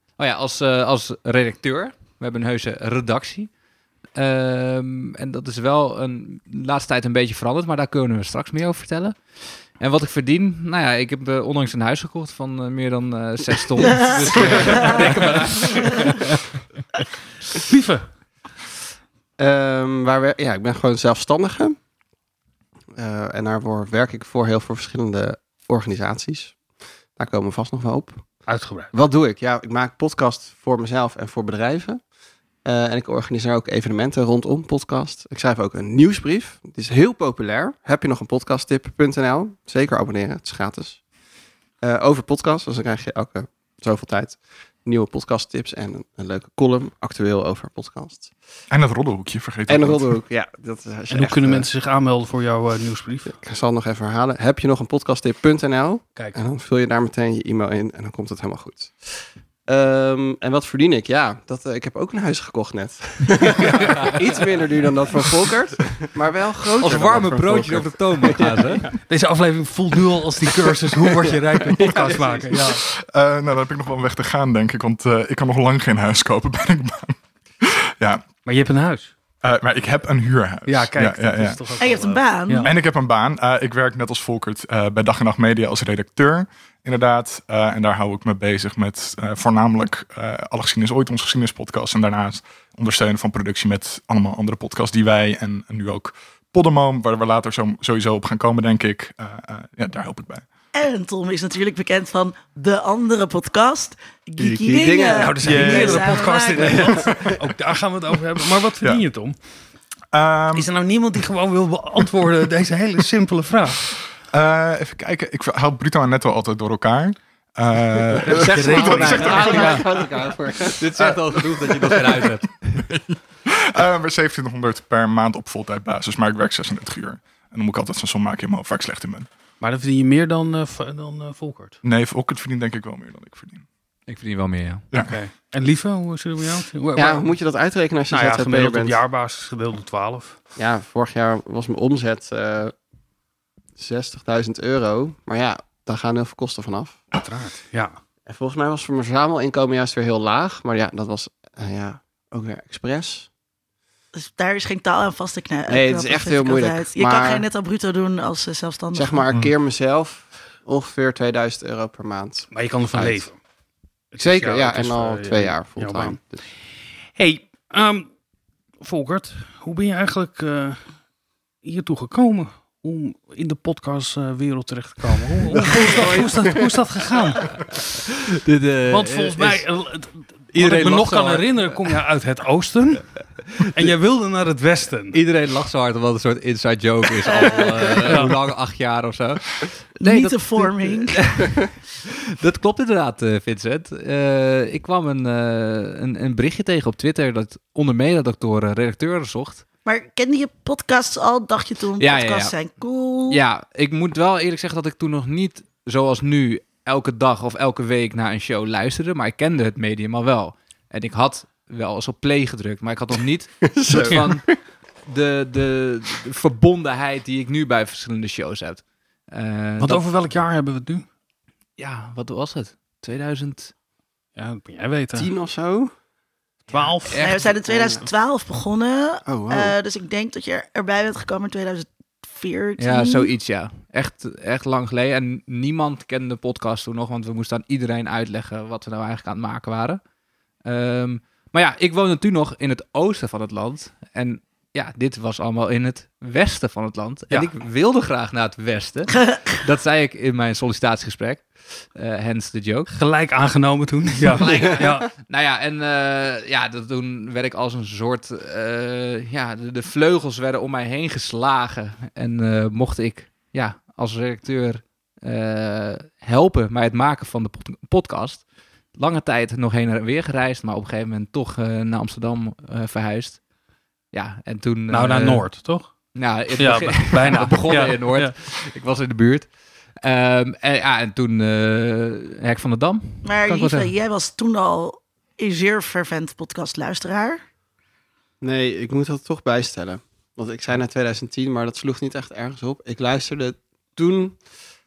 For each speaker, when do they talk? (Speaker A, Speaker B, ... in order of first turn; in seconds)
Speaker A: 0.2-3.5, 4.1-16.4, 63.6-64.2, 66.8-68.9, 118.8-120.0, 120.8-122.8, 134.1-134.8, 175.7-176.2, 178.4-179.7, 180.5-182.0, 185.1-199.6, 202.0-202.6, 203.3-220.0, 221.8-223.7, 227.0-227.5, 232.8-240.0, 240.6-252.9, 254.4-273.4, 274.1-283.9
Speaker B: 14.4-15.6, 19.4-21.8, 22.9-26.6, 27.1-32.0, 32.6-41.0, 41.8-48.3, 49.7-51.7, 53.4-68.9, 71.0-72.6, 104.4-107.0, 118.3-122.0, 136.9-139.0, 140.6-142.7, 143.8-147.0, 148.2-153.3, 155.7-157.4, 158.9-163.3, 164.2-166.4, 175.7-176.6, 213.6-214.6, 225.2-225.9, 227.7-228.0, 229.2-229.7, 254.5-255.0, 288.4-294.4
Speaker C: 14.5-14.9, 48.7-50.2, 72.7-78.2, 79.4-81.8, 82.6-100.5, 110.1-110.7, 114.3-120.0, 121.6-129.3, 131.8-133.6
Speaker D: 17.6-18.1, 28.5-28.9, 51.1-53.4, 69.1-72.8, 78.4-79.1, 80.7-82.7, 105.1-109.3, 110.5-113.8, 118.2-119.8, 129.6-131.8, 135.0-137.4, 138.1-140.4, 147.1-148.0, 162.5-163.4, 164.1-166.2, 167.1-168.1, 168.8-170.9, 171.6-177.7, 178.9-185.2, 188.0-188.4, 213.9-214.3, 219.8-221.1, 224.3-225.3, 226.7-227.2, 252.9-255.1, 274.9-278.3
Speaker E: 81.8-82.7, 100.7-107.1, 154.1-159.2, 187.3-187.6, 190.0-191.4, 199.8-203.4, 227.2-233.3, 283.2-287.4